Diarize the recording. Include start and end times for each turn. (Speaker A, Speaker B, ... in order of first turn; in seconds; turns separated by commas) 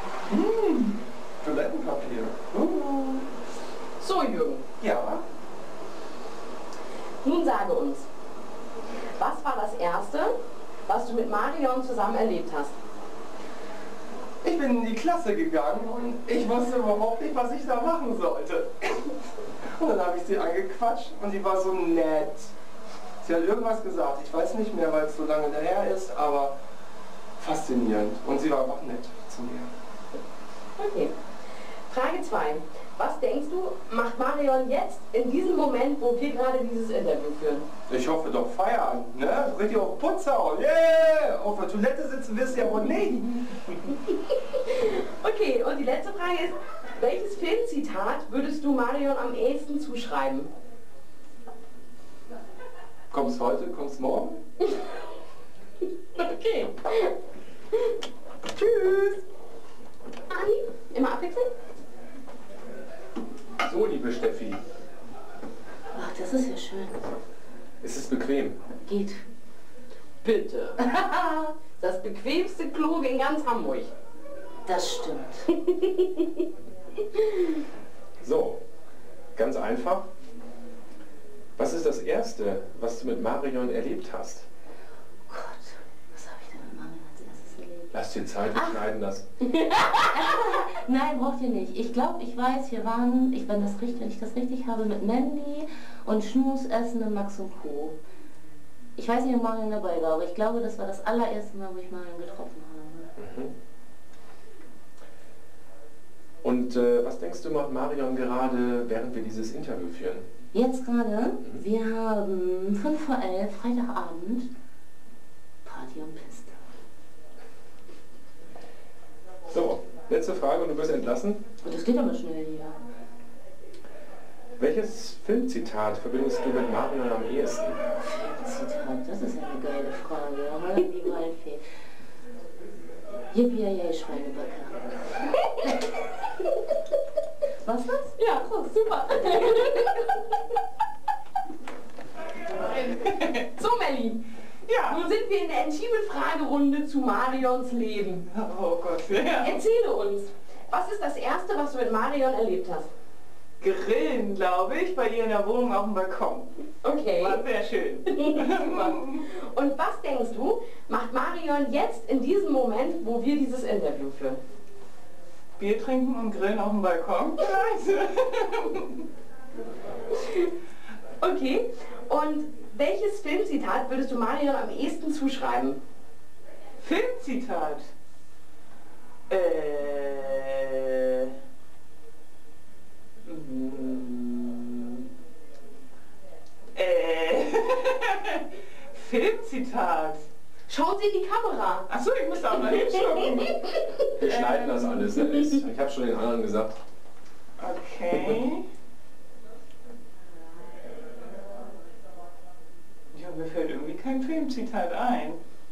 Speaker A: 0.3-3.2, Speaker B: 4.0-4.6, Speaker B: 7.2-8.1, Speaker B: 9.2-10.3, Speaker B: 10.8-12.7, Speaker A: 14.4-19.1, Speaker A: 19.8-22.4, Speaker A: 23.2-26.5, Speaker A: 27.4-29.7, Speaker B: 30.8-31.1, Speaker B: 31.9-37.6, Speaker A: 37.9-43.1, Speaker B: 44.5-50.5, Speaker B: 56.1-57.1, Speaker B: 60.3-61.5, Speaker C: 63.6-64.6, Speaker D: 65.9-67.0, Speaker C: 67.8-68.6, Speaker D: 68.8-69.2, Speaker B: 70.2-71.2, Speaker B: 71.8-73.9, Speaker D: 74.7-75.5, Speaker B: 75.6-76.2, Speaker C: 78.2-78.6, Speaker C: 79.3-80.1, Speaker C: 81.6-84.5, Speaker D: 85.3-88.0, Speaker C: 87.9-89.2, Speaker D: 88.5-88.8, Speaker D: 89.5-98.0, Speaker D: 99.0-103.1, Speaker C: 103.2-103.5, Speaker C: 106.4-110.3, Speaker D: 110.5-114.5, Speaker D: 115.6-116.5, Speaker C: 119.5-121.4, Speaker D: 121.6-122.8, Speaker C: 124.6-127.8, Speaker D: 128.0-131.6, Speaker D: 133.3-135.7, Speaker D: 137.6-138.1, Speaker B: 138.2-140.3, Speaker E: 142.8-143.4, Speaker B: 143.5-144.2, Speaker E: 144.7-145.1, Speaker B: 144.8-148.2, Speaker E: 148.3-149.6, Speaker B: 149.4-152.9, Speaker E: 153.6-156.5, Speaker B: 156.8-157.4, Speaker E: 157.2-159.2, Speaker B: 158.1-164.4, Speaker E: 165.6-169.0, Speaker B: 171.2-175.8, Speaker E: 176.8-177.9, Speaker E: 179.3-181.3, Speaker E: 183.2-185.0, Speaker E: 186.7-190.2, Speaker B: 190.7-191.9, Speaker E: 191.9-195.1, Speaker C: 194.2-196.8, Speaker E: 197.6-198.6, Speaker E: 203.1-205.4